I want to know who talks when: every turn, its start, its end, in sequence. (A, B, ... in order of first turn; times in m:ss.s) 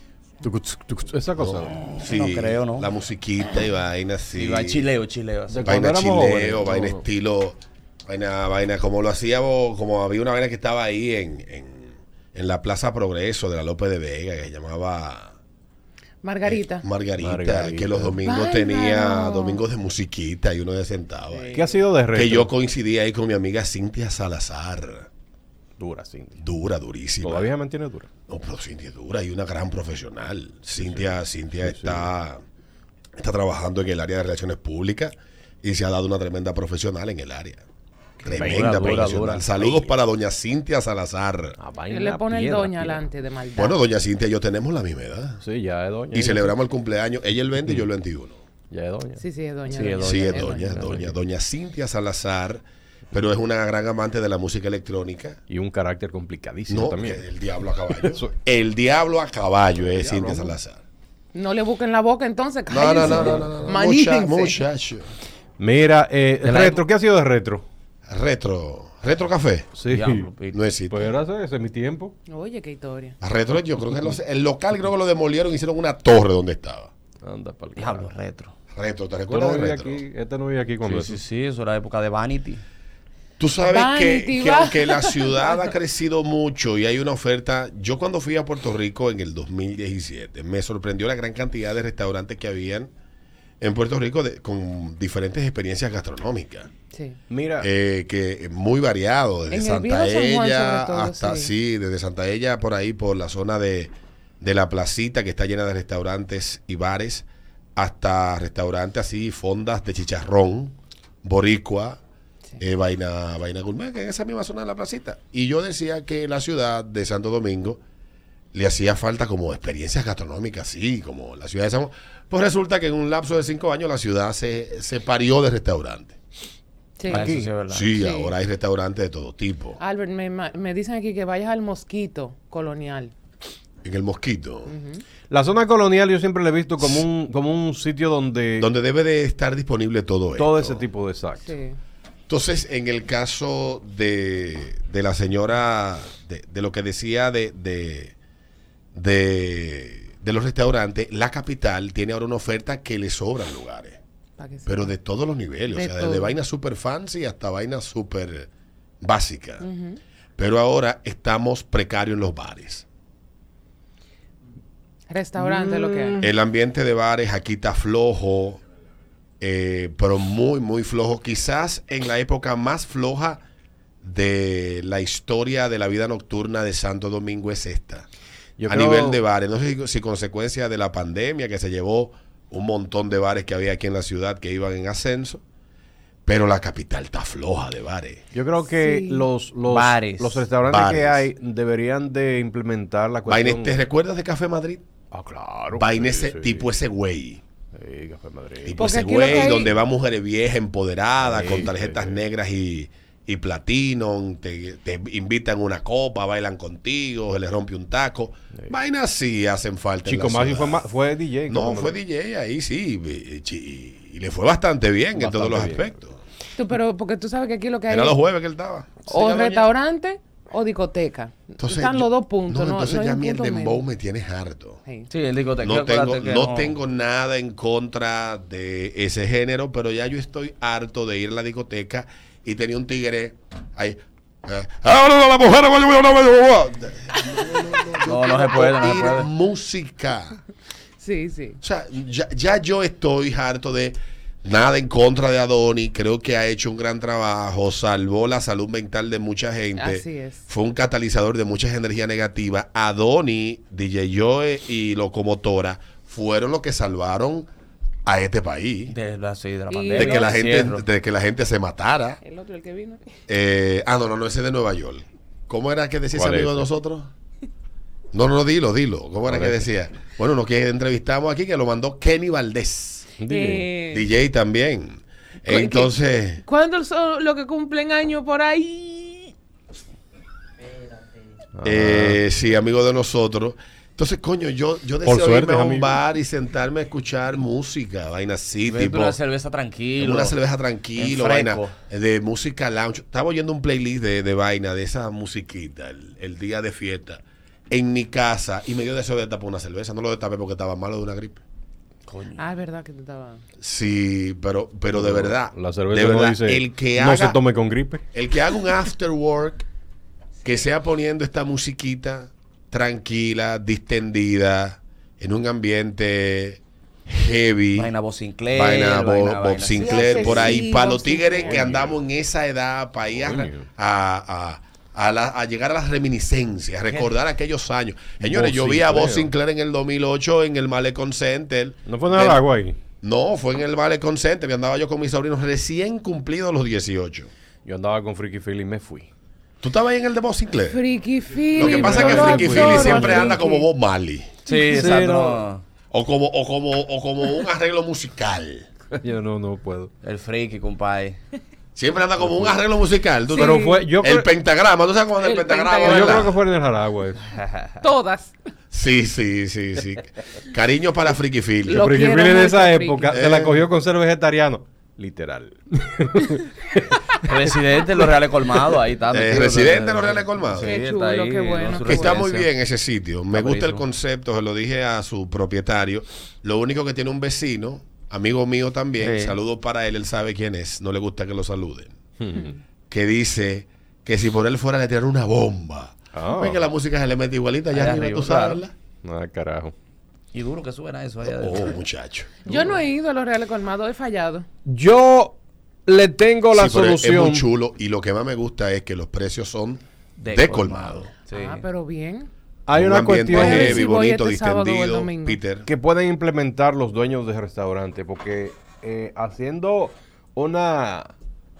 0:00.4-0:01.9 A
0:01.4-0:04.9 B
0:02.0-0:02.9 C
0:04.3-0:05.7 C
0:05.5-0:07.0 A
0:05.6-0:15.4 B
0:16.2-0:16.8 D
0:16.4-0:25.1 B
0:17.2-0:18.2 A
0:18.2-0:19.6 D
0:21.3-0:21.8 D
0:21.5-0:22.5 A
0:25.8-0:26.4 A
0:26.4-0:27.5 B
0:27.2-0:28.1 A
0:28.3-0:32.4 B
0:30.8-0:32.1 A
0:33.2-0:37.6 B
0:38.2-0:38.5 D
0:38.2-0:41.6 B
0:38.4-0:39.1 A
0:38.4-0:39.9 C
0:41.6-0:43.0 A
0:41.9-0:43.8 D
0:43.6-0:45.4 B
0:45.4-0:46.6 A
0:46.1-0:48.4 B
0:48.7-0:51.1 A
0:49.2-0:50.9 D
0:50.0-0:55.4 B
0:55.5-0:57.2 A
0:56.7-1:00.8 B
0:57.9-0:58.3 A
0:59.8-1:00.5 A
1:01.3-1:04.6 D
1:02.7-1:05.1 B
1:05.6-1:07.6 A
1:06.4-1:06.8 C
1:08.1-1:09.7 B
1:09.8-1:10.3 A
1:09.8-1:10.6 C
1:10.5-1:11.1 B
1:10.9-1:12.1 A
1:12.3-1:13.2 D
1:13.2-1:16.9 B
1:17.2-1:18.1 A
1:17.8-1:18.5 C
1:18.7-1:20.0 B
1:19.3-1:21.2 A
1:20.8-1:22.6 C
1:23.4-1:32.9 B
1:23.6-1:25.6 D
1:33.6-1:36.7 B
1:37.3-1:37.7 A
1:37.6-1:52.0 B
1:39.5-1:41.5 D
1:52.6-1:57.8 B
1:58.5-2:06.2 B
2:07.0-2:07.3 D
2:07.1-2:07.9 C
2:07.1-2:07.5 A
2:07.7-2:09.8 B
2:07.9-2:08.3 D
2:09.8-2:13.1 D
2:13.8-2:14.7 B
2:14.6-2:15.0 D
2:15.3-2:18.7 A
2:18.6-2:20.8 B
2:20.4-2:21.5 A
2:21.4-2:21.8 D
2:22.3-2:28.1 B
2:28.9-2:34.0 B
2:34.4-2:34.9 D
2:34.6-2:38.5 B
2:35.7-2:36.3 D
2:39.0-2:39.6 B
2:39.6-2:40.0 D
2:40.4-2:42.8 B
2:45.1-2:46.2 D
2:45.4-2:46.3 A
2:46.2-2:48.6 B
2:49.4-2:53.4 B
2:54.0-2:58.0 B
2:58.6-2:59.2 A
2:58.6-3:05.4 B
3:06.2-3:08.2 B
3:08.3-3:13.8 A
3:08.7-3:09.3 D
3:09.6-3:10.5 C
3:10.6-3:11.3 B
3:13.3-3:14.8 B
3:15.1-3:16.7 A
3:15.7-3:17.4 B
3:17.7-3:19.5 A
3:18.6-3:30.8 B
3:18.8-3:19.8 D
3:21.2-3:22.2 A
3:30.0-3:32.0 A
3:31.5-3:36.2 B
3:35.2-3:35.9 A
3:36.5-3:38.2 D
3:37.9-3:39.7 B
3:39.0-3:43.8 D
3:41.6-3:44.8 B
3:45.1-3:46.8 C
3:45.6-4:00.4 B
3:58.0-3:59.3 C
4:01.0-4:01.6 D
4:01.6-4:17.5 B
4:09.7-4:10.4 D
4:18.0-4:19.0 B
4:18.9-4:20.8 C
4:19.7-4:20.4 D
4:19.9-4:22.2 B
4:22.2-4:23.0 D
4:23.3-4:27.1 B
4:26.1-4:26.7 A
4:28.1-4:33.1 B
4:29.2-4:29.6 A
4:33.2-4:33.7 A
4:33.2-4:34.1 D
4:33.9-4:36.4 B
4:35.5-4:39.3 D
4:41.6-4:42.2 A
4:41.6-4:49.2 B
4:45.0-4:46.0 A
4:48.6-4:50.4 C
4:50.0-5:01.4 B
4:51.0-4:51.8 C
5:02.1-5:02.4 C
5:02.4-5:03.4 D
5:03.6-5:07.4 B
5:04.9-5:08.0 A
5:08.1-5:09.7 B
5:10.4-5:17.9 B
5:17.7-5:20.6 C
5:18.5-5:32.4 B
5:19.8-5:21.7 D
5:21.4-5:22.0 A
5:23.1-5:23.6 A
5:26.9-5:27.1 C
5:28.2-5:29.3 A
5:31.8-5:32.8 A
5:33.0-5:37.3 B
5:37.6-5:39.1 A
5:39.6-5:40.8 B
5:40.7-5:43.7 D
5:41.5-5:44.3 B
5:41.6-5:43.3 A
5:44.4-5:45.6 C
5:44.7-5:45.4 A
5:45.9-5:48.7 B
5:49.0-5:49.9 A
5:50.0-5:51.2 C
5:51.7-5:56.4 B
5:52.2-5:52.6 A
5:53.3-5:53.9 D
5:53.3-5:54.3 A
5:55.2-5:56.3 D
5:55.8-5:57.2 A
5:57.8-5:58.3 D
5:58.7-6:01.9 B
6:01.7-6:03.2 D
6:01.7-6:07.3 A
6:03.1-6:03.6 B
6:07.2-6:12.5 C
6:09.1-6:10.8 B
6:10.5-6:12.2 D
6:11.7-6:22.0 B
6:13.3-6:13.8 C
6:19.0-6:19.4 C
6:22.2-6:22.6 A
6:22.9-6:28.7 B
6:26.1-6:26.6 A
6:27.7-6:28.6 C
6:29.0-6:29.7 A
6:30.3-6:31.8 C
6:31.2-6:32.4 B
6:32.4-6:34.4 D
6:32.5-6:32.8 A
6:34.6-6:37.5 A
6:36.5-6:41.1 B
6:40.2-6:41.6 C
6:41.2-6:42.3 D
6:42.7-6:43.9 A
6:42.7-6:45.7 B
6:43.3-6:45.4 D
6:45.7-6:51.1 A